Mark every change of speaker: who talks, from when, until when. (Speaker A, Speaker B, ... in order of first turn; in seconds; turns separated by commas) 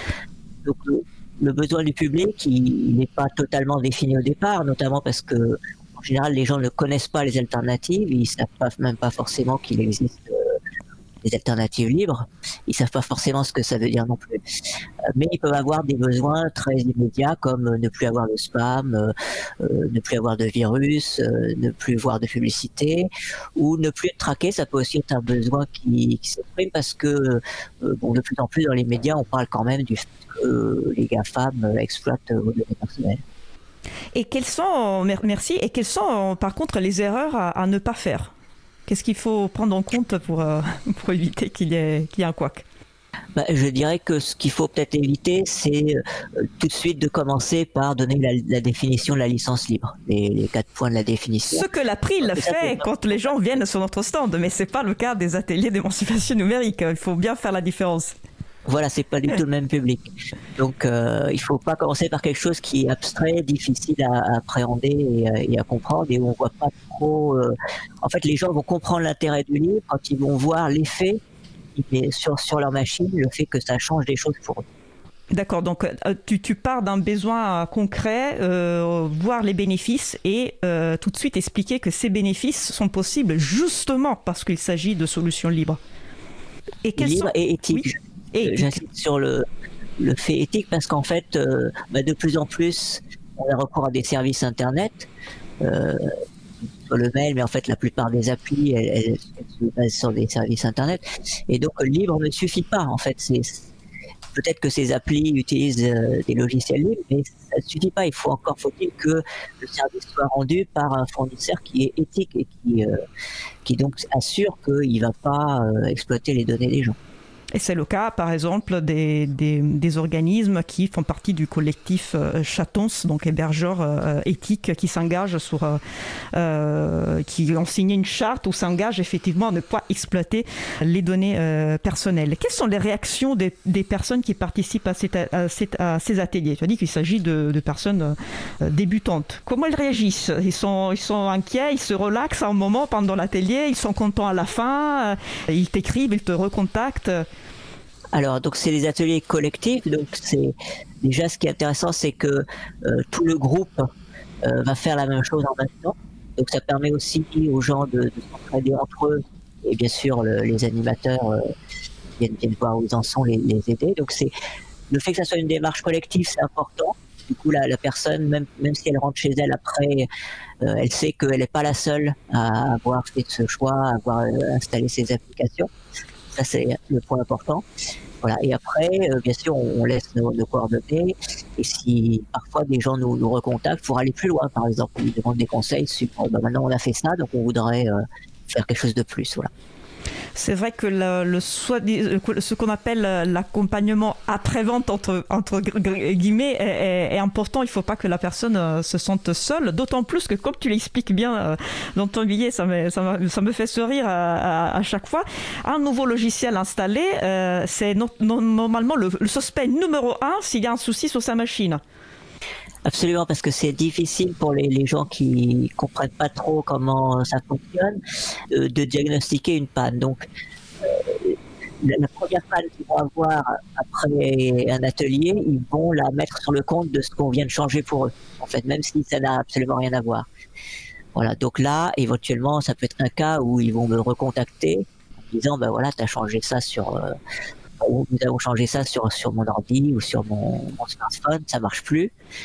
Speaker A: 0.6-10.4, Speaker A: 11.2-14.4, Speaker A: 15.1-33.2, Speaker B: 34.1-38.3, Speaker B: 38.9-42.6, Speaker A: 43.4-51.7, Speaker B: 51.5-58.1, Speaker A: 52.2-52.9, Speaker A: 58.7-71.2, Speaker A: 71.8-74.6, Speaker B: 75.3-85.8, Speaker B: 86.8-88.8, Speaker A: 87.0-89.4, Speaker A: 90.0-95.1, Speaker A: 95.6-96.1, Speaker A: 96.9-103.7, Speaker A: 104.3-112.9, Speaker A: 113.6-117.0, Speaker B: 117.5-125.8, Speaker B: 126.3-147.2, Speaker A: 148.1-153.9, Speaker A: 154.4-161.4, Speaker A: 162.2-164.3, Speaker A: 164.9-170.1, Speaker A: 170.6-175.7, Speaker A: 176.3-177.6, Speaker A: 178.2-189.5, Speaker B: 190.3-211.8, Speaker A: 212.8-218.0, Speaker A: 218.5-220.2, Speaker A: 220.8-230.2, Speaker A: 231.1-237.1, Speaker A: 237.8-242.1